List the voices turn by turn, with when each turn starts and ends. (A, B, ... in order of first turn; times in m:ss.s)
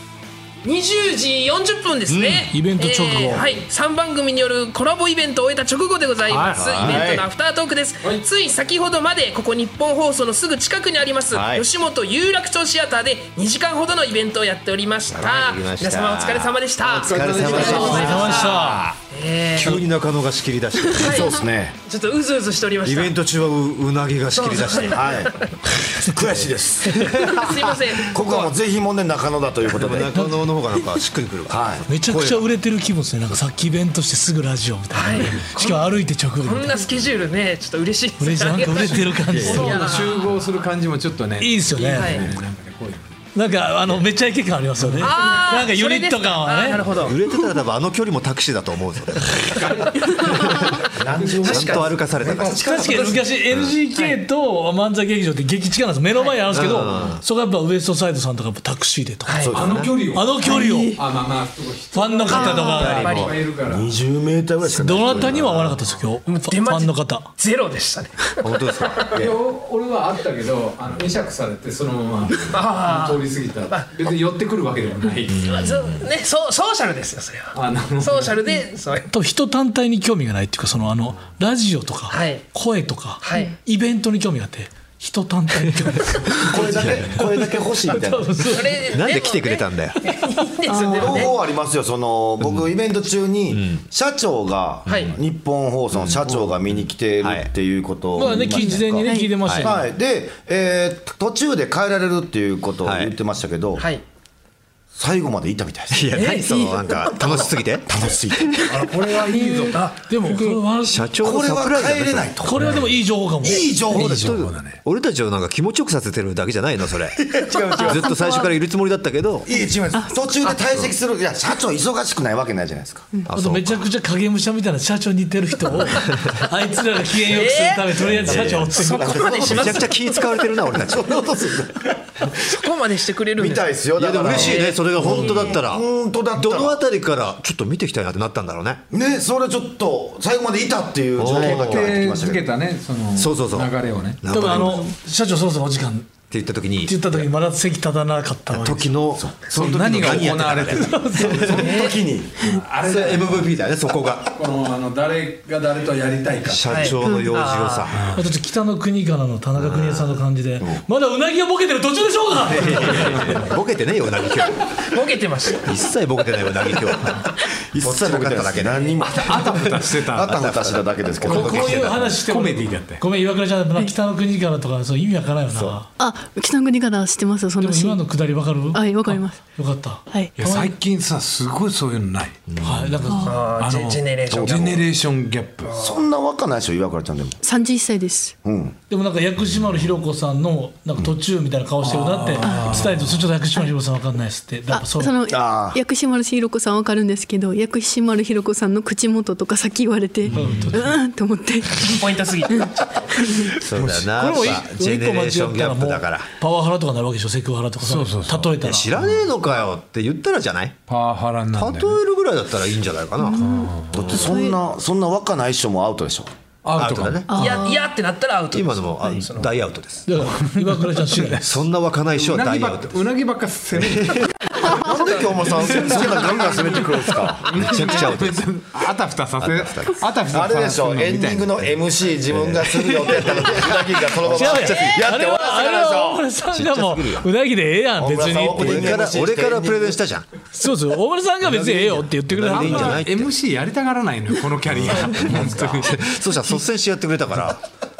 0:00.6-0:19.8 A
0:02.1-0:02.5 B
0:02.5-0:03.5 C
0:06.3-0:06.9 C
0:06.5-0:07.2 B
0:11.3-0:11.6 B
0:15.1-0:19.0 B
0:16.9-0:18.2 D
0:17.0-0:18.3 E
0:17.9-0:18.9 C
0:19.5-0:21.3 B
0:20.9-0:23.2 A
0:21.0-0:21.8 E
0:22.8-0:25.3 B
0:24.3-0:25.5 A
0:24.9-0:25.3 E
0:25.9-0:27.1 E
0:26.2-0:27.8 B
0:27.3-0:28.5 A
0:28.1-0:30.1 E
0:29.6-0:32.4 B
0:30.1-0:30.4 C
0:31.5-0:31.8 E
0:31.9-0:36.8 C
0:34.9-0:40.2 A
0:38.2-0:40.1 C
0:39.3-0:39.7 B
0:39.3-0:43.2 D
0:41.4-0:42.1 C
0:41.8-0:42.3 A
0:42.0-0:42.3 E
0:43.3-0:46.8 C
0:44.8-0:45.1 D
0:45.0-0:47.2 A
0:46.9-0:49.6 B
0:49.5-0:53.2 D
0:50.1-0:50.8 B
0:50.9-0:53.2 E
0:51.4-0:52.6 B
0:52.5-0:59.5 C
0:56.1-0:57.0 A
0:56.5-0:57.2 B
0:59.2-0:59.6 A
0:59.4-0:59.9 E
0:59.5-1:04.0 D
1:00.1-1:01.0 C
1:00.4-1:01.0 F
1:01.9-1:03.2 C
1:02.3-1:03.3 A
1:02.4-1:03.0 F
1:02.8-1:05.6 E
1:04.7-1:07.3 C
1:05.0-1:05.8 B
1:06.3-1:09.2 A
1:08.4-1:09.1 B
1:09.1-1:15.6 D
1:12.5-1:13.9 A
1:15.3-1:16.0 B
1:15.4-1:19.1 A
1:17.5-1:18.4 D
1:19.0-1:26.5 C
1:22.1-1:22.4 A
1:23.2-1:23.5 A
1:25.6-1:25.9 B
1:26.4-1:28.4 E
1:26.6-1:27.4 B
1:27.2-1:28.8 C
1:28.4-1:31.4 A
1:28.9-1:30.0 B
1:30.7-1:31.3 F
1:30.8-1:43.9 E
1:32.4-1:32.7 B
1:33.5-1:33.8 B
1:34.9-1:35.1 B
1:34.9-1:35.2 A
1:35.9-1:37.5 B
1:38.1-1:39.9 C
1:38.6-1:39.4 F
1:39.4-1:39.7 B
1:42.8-1:43.1 B
1:43.8-1:44.0 A
1:44.9-1:46.1 E
1:45.9-1:48.8 B
1:46.1-1:46.8 A
1:47.1-1:48.9 E
1:48.7-1:49.9 D
1:49.1-1:51.0 C
1:49.6-1:50.0 A
1:50.8-1:52.8 B
1:51.2-1:52.6 E
1:52.4-1:53.8 C
1:53.4-1:54.4 E
1:53.9-1:54.8 D
1:53.9-1:59.5 B
1:57.3-1:58.1 E
1:57.8-1:58.5 F
1:59.4-2:03.1 E
2:03.2-2:03.8 B
2:03.3-2:09.2 C
2:05.8-2:06.4 B
2:07.2-2:08.1 A
2:08.0-2:11.7 B
2:08.4-2:09.9 E
2:08.8-2:10.2 A
2:09.1-2:09.5 D
2:10.9-2:11.7 E
2:12.3-2:13.7 A
2:13.4-2:16.8 E
2:14.0-2:18.8 B
2:14.3-2:15.6 A
2:18.9-2:22.5 E
2:21.2-2:22.0 B
2:21.2-2:24.2 D
2:23.2-2:24.9 B
2:24.3-2:26.1 C
2:26.3-2:27.3 B
2:26.8-2:28.9 C
2:28.5-2:31.7 B
2:29.2-2:29.5 E
2:29.5-2:31.8 D
2:30.7-2:31.6 C
2:31.2-2:32.5 E
2:31.6-2:32.0 A
2:32.4-2:33.5 D
2:32.8-2:34.4 B
2:34.3-2:37.0 D
2:36.4-2:38.1 B
2:36.7-2:37.9 A
2:37.0-2:37.3 F
2:37.9-2:38.2 D
2:38.1-2:43.4 C
2:39.6-2:40.2 B
2:42.4-2:44.8 B
2:43.1-2:43.3 D
2:44.7-2:45.8 A
2:45.6-2:49.6 B
2:47.7-2:51.8 E
2:49.1-2:50.5 D
2:50.3-2:52.1 B
2:51.2-2:55.9 C
2:51.3-2:53.0 D
2:55.5-2:55.8 B
2:56.0-2:58.0 F
2:57.6-3:00.7 C
2:58.7-2:59.4 F
3:00.4-3:02.4 D
3:02.5-3:03.0 B
3:02.6-3:03.4 C
3:03.0-3:03.4 F
3:03.2-3:04.8 A
3:03.6-3:05.8 D
3:04.3-3:04.8 E
3:05.6-3:06.0 A
3:05.8-3:07.4 E
3:07.4-3:08.3 F
3:08.4-3:08.8 E
3:08.9-3:15.2 C
3:11.8-3:13.2 D
3:12.4-3:12.8 F
3:14.7-3:23.6 F
3:15.3-3:15.8 E
3:20.3-3:20.9 D
3:20.3-3:21.0 C
3:21.8-3:23.1 A
3:23.6-3:26.3 B
3:23.7-3:24.1 D
3:24.0-3:28.9 C
3:27.8-3:29.2 D
3:28.6-3:30.8 B
3:30.9-3:32.0 D
3:31.5-3:34.4 B
3:33.2-3:34.6 F
3:33.4-3:34.0 D
3:33.9-3:36.3 E
3:36.6-3:37.4 D
3:36.7-3:37.6 B
3:37.3-3:37.8 F
3:37.3-3:39.6 A
3:38.5-3:40.3 B
3:40.0-3:41.6 C
3:40.4-3:41.5 D
3:41.4-3:43.0 B
3:42.1-3:44.8 D
3:43.7-3:44.7 B
3:44.6-3:47.5 E
3:44.9-3:45.2 A
3:45.4-3:51.6 D
3:45.7-3:46.3 B
3:47.5-3:48.5 B
3:49.4-3:50.0 B
3:50.3-3:56.2 E
3:52.3-3:54.7 B
3:54.3-3:59.0 C
3:56.5-3:57.3 B
3:58.0-4:00.0 E
3:58.5-4:00.2 B
4:00.5-4:03.0 C
4:01.4-4:03.3 B
4:02.5-4:06.0 D
4:04.7-4:07.6 B